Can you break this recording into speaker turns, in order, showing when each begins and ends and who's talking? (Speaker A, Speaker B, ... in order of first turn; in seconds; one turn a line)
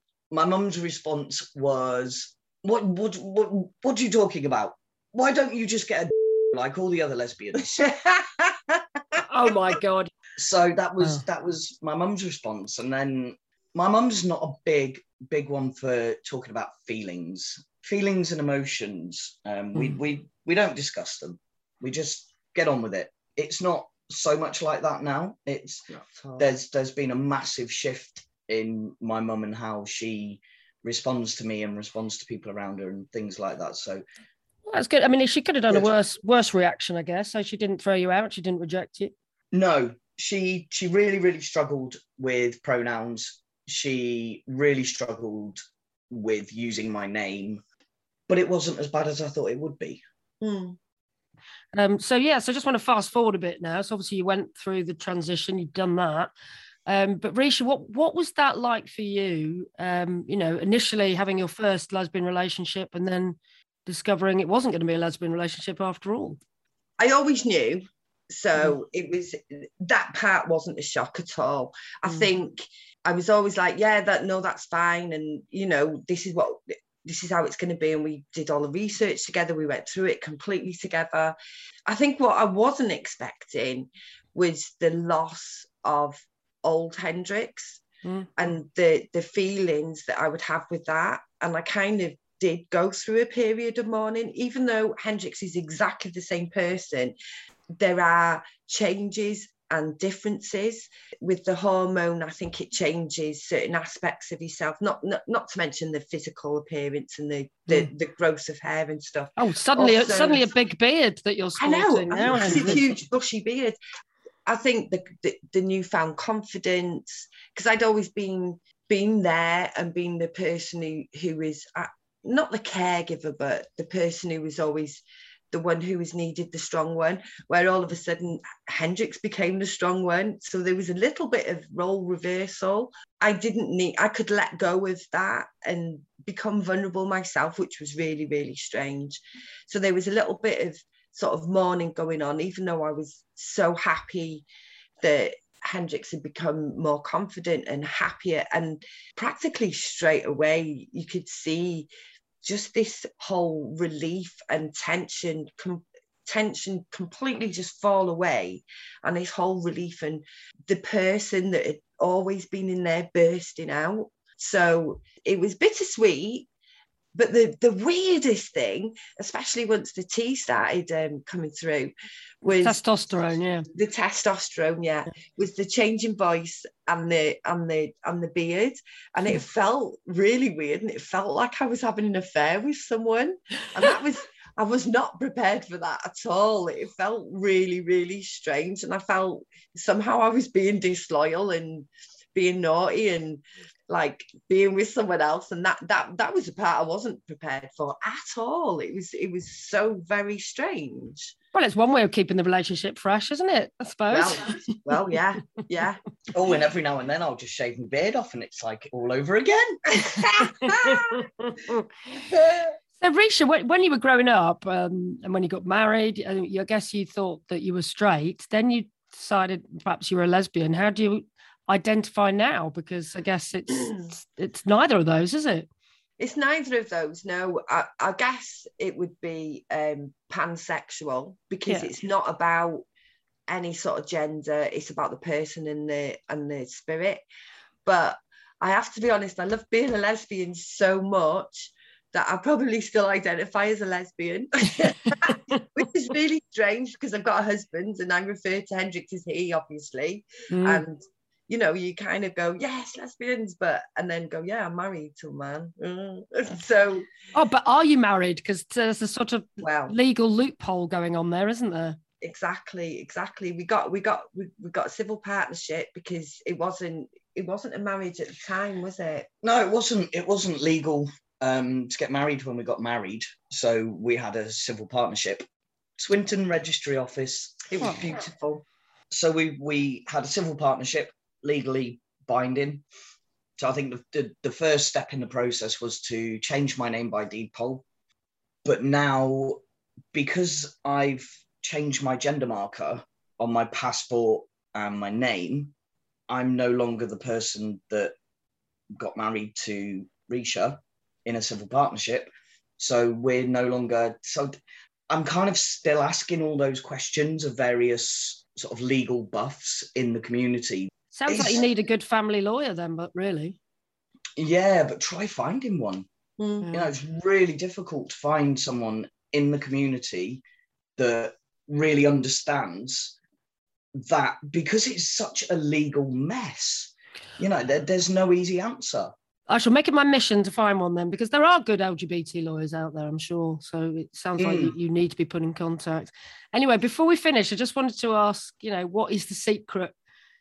Speaker A: 0.3-7.8
Speaker B: 7.7-9.2
Speaker C: 9.2-10.1
Speaker A: 10.4-34.0
Speaker B: 26.1-26.5
Speaker C: 34.6-39.1
Speaker A: 39.5-47.6
Speaker A: 48.3-50.0
Speaker B: 50.4-50.8
Speaker C: 51.7-56.3
Speaker C: 56.9-66.4
Speaker B: 67.0-81.4
Speaker B: 81.9-87.8
Speaker B: 88.4-97.2
Speaker B: 97.7-110.5
Speaker C: 109.4-112.8
Speaker B: 111.6-113.8
Speaker B: 114.5-144.4
Speaker B: 145.0-151.9
Speaker B: 152.4-166.5
Speaker B: 167.1-172.8
Speaker C: 172.5-173.7
Speaker B: 173.7-201.3
Speaker C: 201.5-204.6
Speaker A: 204.1-204.5
Speaker B: 204.9-206.0
Speaker A: 206.3-210.0
Speaker B: 210.0-211.1
Speaker C: 210.4-211.8
Speaker C: 213.0-225.7
Speaker B: 226.2-232.8
Speaker B: 233.5-237.2
Speaker B: 237.8-257.1
Speaker C: 250.5-250.8
Speaker C: 257.3-262.0
Speaker B: 259.6-259.9
Speaker B: 262.2-269.3
Speaker A: 269.4-275.4
Speaker A: 276.0-277.9
Speaker B: 277.7-278.6
Speaker A: 279.1-282.8
Speaker A: 283.6-287.8
Speaker A: 288.6-289.6
Speaker A: 290.1-295.7
Speaker A: 296.3-298.1
Speaker A: 299.0-304.5
Speaker A: 305.1-311.6
Speaker C: 311.1-313.6
Speaker A: 314.4-316.1
Speaker B: 316.4-316.7
Speaker A: 316.7-320.4
Speaker A: 321.0-323.1
Speaker A: 323.9-329.1
Speaker C: 329.5-339.9
Speaker A: 334.4-334.7